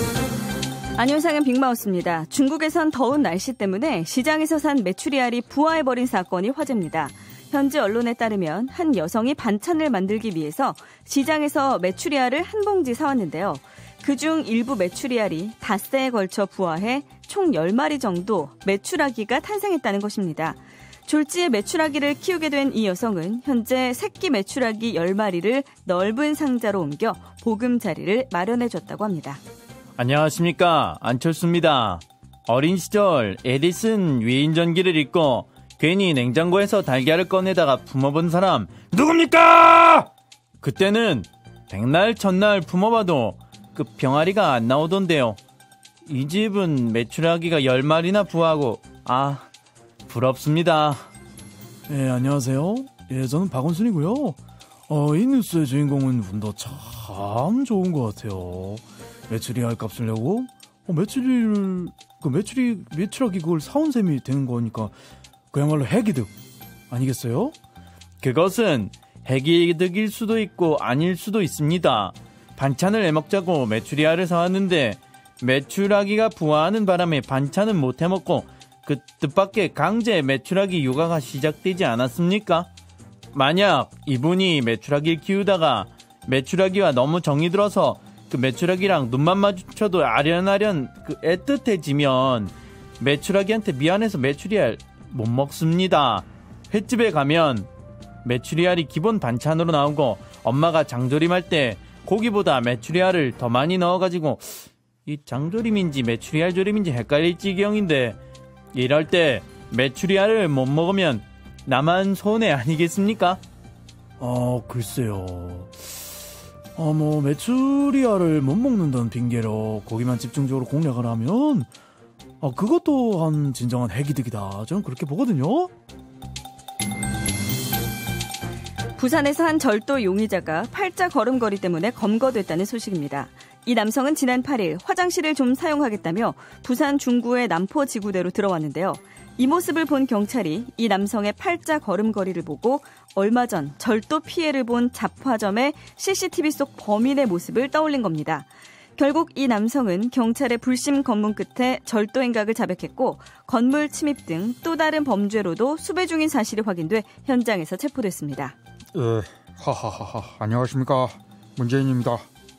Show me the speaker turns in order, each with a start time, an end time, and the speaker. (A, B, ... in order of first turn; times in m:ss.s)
0:01.0-0:29.4 A
0:30.0-0:40.1 B
0:40.6-0:45.4 B
0:46.0-0:49.4 B
0:50.1-0:51.1 B
0:51.9-1:04.9 C
1:05.5-1:06.3 C
1:06.9-1:07.5 C
1:08.2-1:22.7 B
1:23.3-1:37.7 B
1:38.2-1:48.2 B
1:48.7-1:53.4 B
1:54.2-1:55.9 C
1:56.7-2:01.7 C
2:02.4-2:05.7 C
2:09.0-2:38.6 A
2:38.9-2:42.2 D